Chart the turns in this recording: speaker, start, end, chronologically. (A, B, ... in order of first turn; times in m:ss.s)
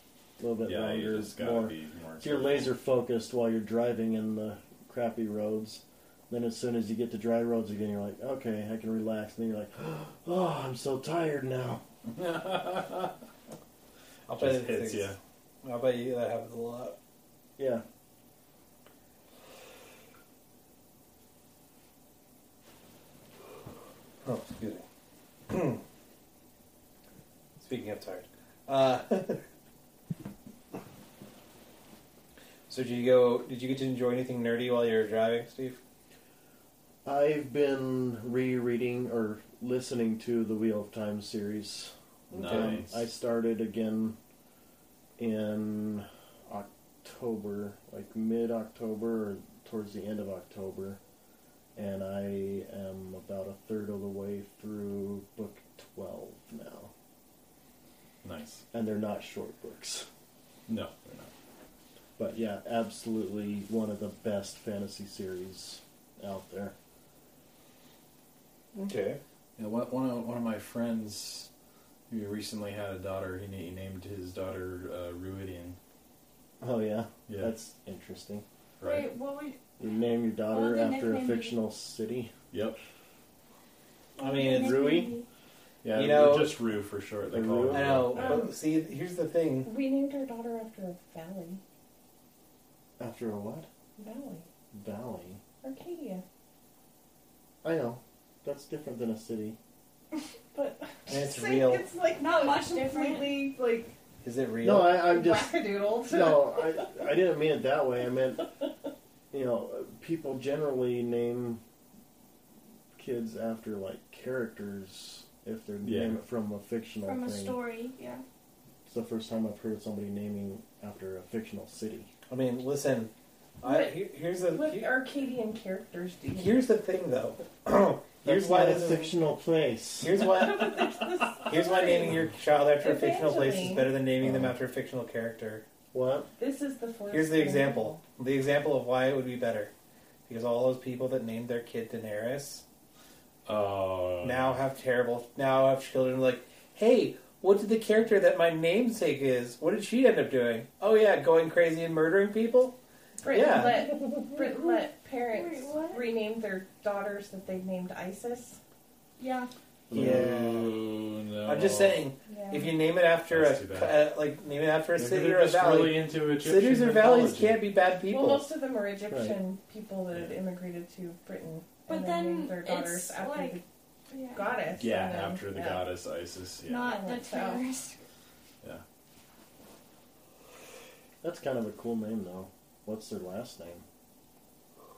0:00.4-0:11.8 A
0:00.6-0:02.7 B
0:12.1-0:13.2 B
0:14.3-0:17.0 C
0:14.3-0:15.2 B
0:17.6-0:17.8 A
0:24.2-0:24.8 C
0:25.5-0:25.8 C
0:27.6-0:29.4 C
0:32.7-0:35.8 C
0:37.0-0:44.2 A
0:42.3-0:42.8 C
0:42.3-0:43.0 B
0:45.2-0:51.0 A
0:51.8-0:56.9 A
0:58.2-0:58.6 B
0:58.7-1:00.1 A
1:00.7-1:01.3 B
1:02.2-1:06.8 A
1:08.8-1:09.2 C
1:09.6-1:11.5 B
1:12.1-1:15.8 B
1:16.6-1:18.4 A
1:17.3-1:17.5 B
1:18.8-1:19.1 B
1:18.8-1:19.6 D
1:19.8-1:22.3 A
1:20.5-1:21.6 D
1:22.5-1:22.8 B
1:24.2-1:25.0 C
1:24.2-1:25.3 D
1:24.4-1:25.1 A
1:25.8-1:28.4 B
1:25.9-1:26.6 C
1:27.3-1:28.2 A
1:27.7-1:29.7 C
1:28.2-1:28.5 E
1:29.6-1:31.6 E
1:33.0-1:33.7 A
1:34.0-1:34.5 E
1:34.7-1:35.4 A
1:35.6-1:36.2 E
1:37.6-1:39.6 A
1:40.5-1:43.9 E
1:41.1-1:41.8 C
1:42.2-1:43.5 D
1:44.2-1:45.0 C
1:44.6-1:48.5 A
1:45.0-1:46.9 E
1:49.3-1:51.6 A
1:53.0-1:57.6 A
1:55.8-1:56.2 B
1:57.0-1:58.2 D
1:58.9-2:02.1 A
2:02.3-2:04.9 C
2:03.6-2:06.8 E
2:06.3-2:09.1 C
2:08.2-2:10.2 A
2:10.0-2:15.6 C
2:10.2-2:13.9 E
2:14.2-2:14.5 A
2:15.9-2:16.3 A
2:16.4-2:18.0 E
2:17.1-2:19.7 C
2:20.3-2:22.6 C
2:23.5-2:24.6 B
2:24.2-2:32.8 C
2:33.2-2:38.6 E
2:33.3-2:33.8 C
2:34.3-2:36.1 D
2:39.2-2:39.5 D
2:39.9-2:40.4 A
2:39.9-2:42.1 B
2:39.9-2:40.8 C
2:41.4-2:48.5 C
2:42.3-2:42.8 E
2:43.3-2:44.0 B
2:45.0-2:47.6 B
2:48.1-2:53.6 E
2:49.1-2:49.4 A
2:50.1-2:50.4 B
2:51.9-2:53.6 D
2:54.1-2:54.6 D
2:54.3-2:55.9 E
2:54.8-2:57.0 B
2:56.7-2:58.0 D
2:56.8-2:57.7 E
3:01.2-3:03.8 A